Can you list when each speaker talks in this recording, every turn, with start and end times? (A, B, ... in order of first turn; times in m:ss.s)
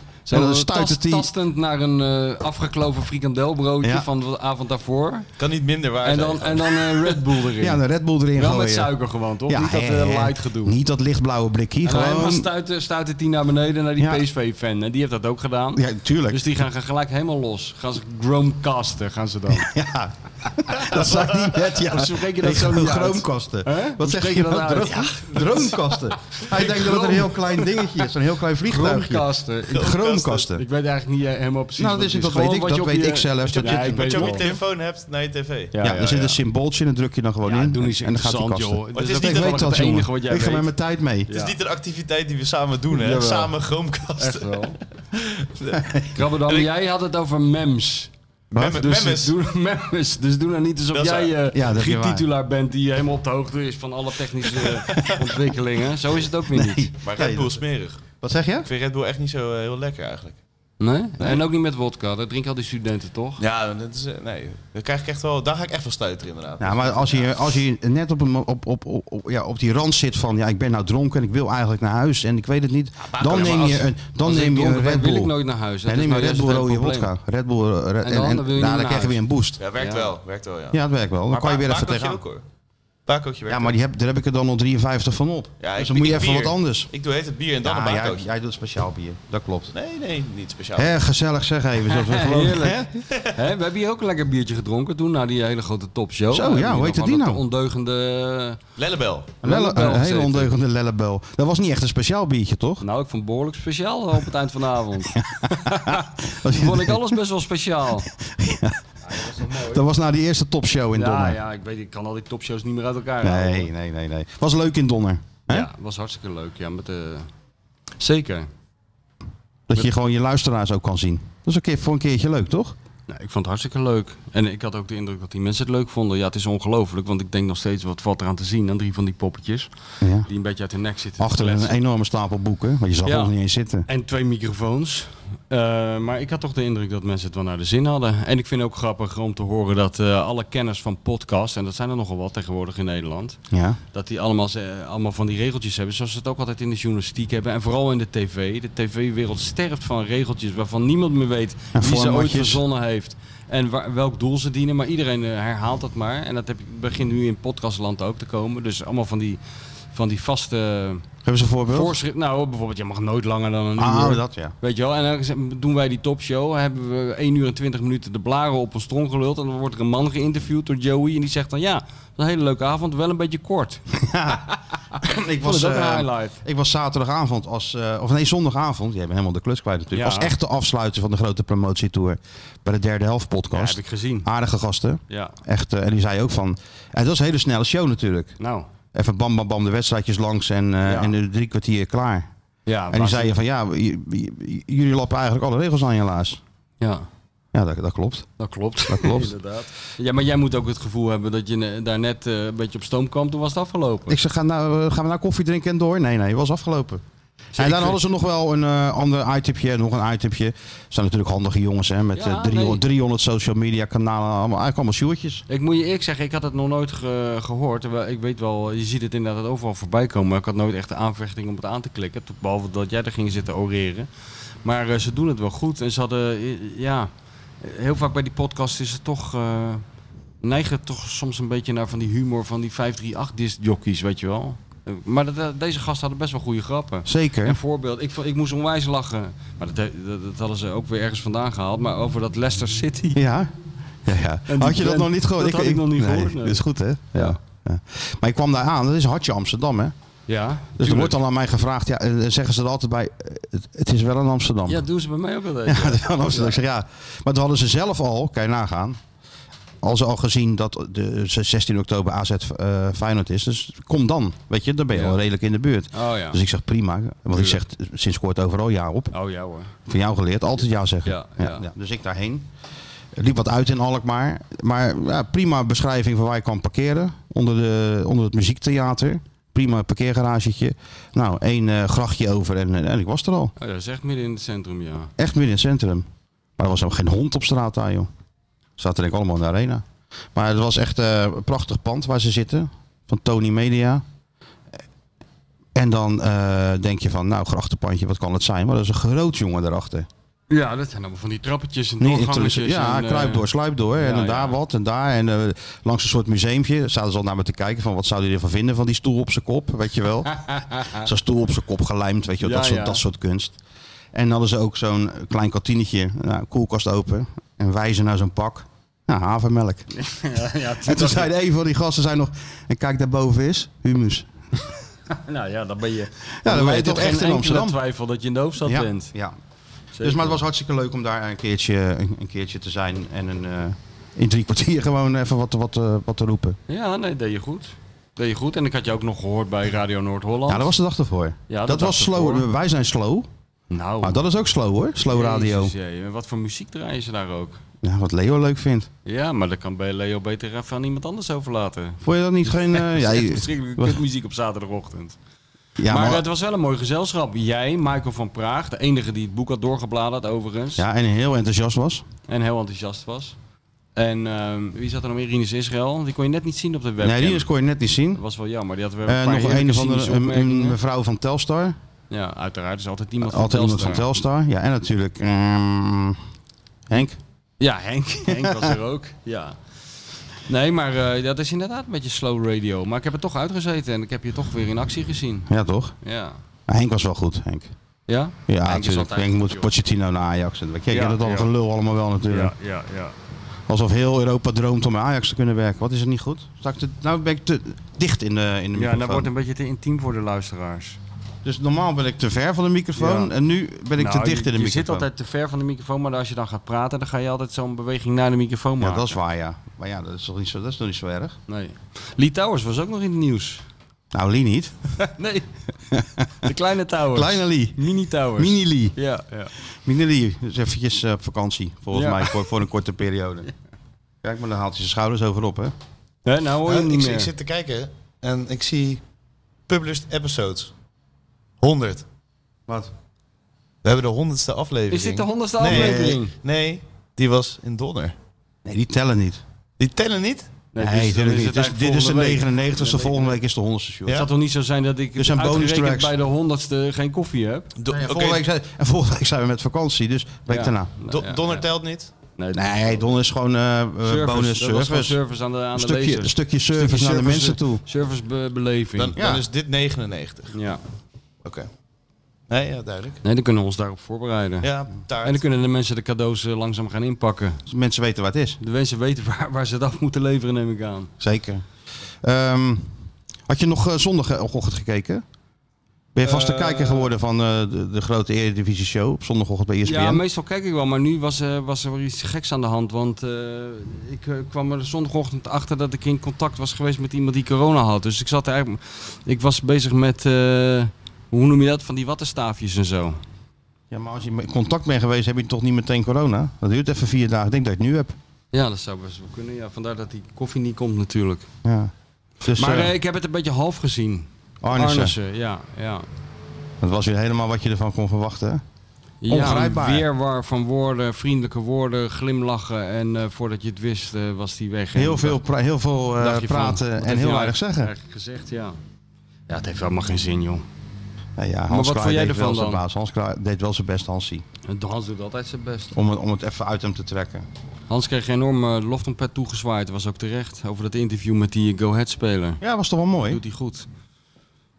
0:00.2-0:05.3 A
0:00.3-0:01.3 B
0:03.8-0:04.1 B
0:05.4-0:07.2 C
0:06.0-0:07.8 A
0:07.6-0:08.9 B
0:08.3-0:10.8 A
0:09.5-0:12.5 B
0:11.8-0:19.7 A
0:15.8-0:16.4 B
0:19.5-0:30.6 B
0:21.8-0:28.0 A
0:28.6-0:30.0 A
0:29.7-0:30.5 C
0:30.5-0:34.5 A
0:31.8-0:34.6 B
0:33.4-0:35.7 C
0:35.7-0:36.4 A
0:35.8-0:41.3 B
0:37.4-0:40.7 A
0:38.9-0:39.7 C
0:41.3-0:44.6 C
0:42.9-0:43.5 A
0:44.2-0:44.8 A
0:45.1-0:45.9 C
0:46.1-0:48.1 A
0:48.5-0:49.3 C
0:48.5-0:48.8 B
0:48.7-0:56.9 A
0:50.9-0:51.3 C
0:51.5-0:52.2 B
0:54.9-0:55.2 B
0:56.5-0:57.5 B
0:57.0-0:58.0 C
0:58.2-0:58.7 B
0:58.6-1:00.4 C
1:00.8-1:03.4 A
1:03.4-1:07.3 C
1:06.6-1:19.6 B
1:13.1-1:13.8 C
1:13.2-1:17.1 A
1:18.0-1:19.2 A
1:19.6-1:22.4 C
1:19.8-1:20.1 A
1:20.7-1:22.2 B
1:23.1-1:23.7 C
1:23.5-1:26.9 B
1:25.6-1:28.2 C
1:27.6-1:29.7 B
1:29.7-1:31.0 C
1:30.8-1:33.0 B
1:31.9-1:38.6 A
1:36.3-1:37.4 B
1:38.8-1:39.3 C
1:39.4-1:42.8 B
1:39.4-1:40.5 A
1:42.8-1:48.1 A
1:45.1-1:47.1 B
1:48.0-1:51.4 B
1:49.1-1:49.8 A
1:50.9-1:53.7 A
1:53.2-1:55.7 B
1:55.5-1:57.3 A
1:58.0-1:58.5 A
1:59.7-2:02.8 B
2:03.1-2:09.7 A
2:10.0-2:10.3 B
2:10.2-2:11.8 A
2:11.2-2:13.9 B
2:13.0-2:13.3 A
2:13.9-2:23.4 A
2:23.5-2:23.8 B
2:23.9-2:39.4 A
2:31.7-2:32.6 B
2:39.9-2:41.0 A
2:41.2-2:41.9 B
2:41.7-2:53.8 A
2:43.8-2:44.5 B
2:54.0-3:08.4 B
2:55.4-2:56.4 A
2:59.9-3:00.3 A
3:03.5-3:04.3 A
3:05.1-3:05.4 A
3:08.4-3:08.7 A
3:08.9-3:12.3 B
3:10.8-3:11.1 A
3:12.6-3:13.4 A
3:12.9-3:16.4 B
3:16.8-3:17.1 A
3:17.5-3:18.3 B
3:18.4-3:24.2 A
3:18.9-3:19.4 B
3:24.1-3:27.0 B
3:27.5-3:28.0 A
3:27.6-3:35.4 B
3:32.1-3:32.8 A
3:35.5-3:44.1 A
3:44.6-3:47.1 A
3:47.6-3:49.8 A
3:50.4-4:03.2 A
3:57.0-3:57.6 B
4:03.1-4:03.5 B
4:04.0-4:09.9 B
4:04.5-4:06.6 A
4:07.1-4:07.4 A
4:10.3-4:11.2 A
4:10.8-4:14.8 B
4:14.7-4:16.6 A
4:15.6-4:19.0 B
4:19.8-4:29.1 B
4:24.9-4:25.2 A
4:25.9-4:26.4 A
4:27.3-4:27.6 A
4:29.1-4:29.7 A
4:29.9-4:32.5 B
4:31.0-4:31.6 A
4:33.2-4:43.5 B
4:43.6-4:45.1 A
4:45.2-4:46.0 B
4:46.6-4:48.1 B
4:48.8-4:54.0 B
4:55.7-5:00.1 B
5:00.5-5:04.6 A
5:02.0-5:13.6 B
5:10.4-5:11.1 A
5:12.4-5:13.0 A
5:14.1-5:19.9 B
5:19.9-5:21.3 A
5:20.8-5:24.7 B
5:25.1-5:29.1 A
5:26.4-5:27.8 B
5:28.6-5:29.4 B
5:29.9-5:30.4 A
5:30.0-5:36.6 B
5:36.7-5:40.7 A
5:40.5-5:43.3 B
5:41.5-5:42.5 A
5:43.7-5:44.2 A
5:44.0-5:45.7 B
5:45.0-5:47.6 A
5:47.8-5:48.9 B
5:49.0-5:55.2 A
5:52.0-5:54.0 B
5:55.8-5:56.2 B
5:55.9-6:00.8 A
6:00.8-6:02.0 B
6:02.3-6:03.4 A
6:04.0-6:07.5 A
6:07.0-6:08.2 B
6:08.1-6:10.8 A
6:09.0-6:11.8 B
6:12.1-6:14.1 A
6:13.2-6:16.2 B
6:16.9-6:17.2 B
6:17.6-6:19.6 A
6:18.3-6:18.7 B
6:20.5-6:25.5 A
6:25.5-6:25.9 B
6:26.0-6:26.4 A
6:26.7-6:27.7 B
6:28.1-6:29.7 A
6:28.5-6:32.5 B
6:30.9-6:31.5 A
6:32.3-6:33.2 A
6:33.7-6:39.3 B
6:38.7-6:41.0 A
6:41.4-6:45.1 B
6:42.9-6:43.3 A
6:44.0-6:49.2 A
6:48.8-6:51.4 B
6:51.5-6:53.6 A
6:54.1-6:54.7 B
6:55.0-6:55.5 A
6:55.9-6:56.5 B
6:56.4-6:59.5 A
6:57.1-6:59.0 B
6:59.6-7:03.5 B
7:01.9-7:02.4 A
7:04.2-7:05.7 B
7:06.2-7:07.3 A
7:06.6-7:09.0 C
7:09.7-7:10.7 C
7:11.6-7:12.0 C
7:13.8-7:18.1 C
7:14.9-7:16.3 A
7:15.6-7:16.2 B
7:18.6-7:19.4 B
7:19.8-7:20.5 C
7:20.7-7:23.4 A
7:20.8-7:24.2 B
7:24.1-7:27.7 A
7:25.2-7:26.1 B
7:27.8-7:28.4 C
7:27.9-7:30.9 B
7:30.5-7:31.6 A
7:31.1-7:32.1 C
7:32.4-7:33.1 A
7:32.5-7:35.2 B
7:34.0-7:39.1 A
7:35.7-7:37.8 B
7:39.0-7:40.5 C
7:39.2-7:39.4 B
7:40.5-7:40.8 A
7:42.5-7:43.2 C
7:43.2-7:44.7 A
7:44.6-7:45.4 C
7:45.2-7:47.6 A
7:47.6-7:48.6 B
7:48.6-7:51.1 A
7:51.2-7:51.6 B
7:52.2-7:55.2 B
7:56.1-8:00.2 B
7:56.2-7:57.1 A
7:59.8-8:13.2 A
8:13.9-8:18.2 B
8:18.5-8:21.5 A
8:21.6-8:22.9 B
8:22.5-8:26.0 A
8:24.6-8:25.1 B
8:26.8-8:28.6 B
8:29.2-8:35.4 A
8:29.3-8:30.0 B
8:34.9-8:37.9 B
8:36.2-8:38.8 A
8:39.5-8:40.6 A
8:41.4-8:44.4 B
8:41.7-8:42.8 A
8:44.7-8:46.0 A
8:45.9-8:47.4 B
8:47.9-8:52.6 A
8:52.6-8:53.4 B
8:53.3-8:53.9 A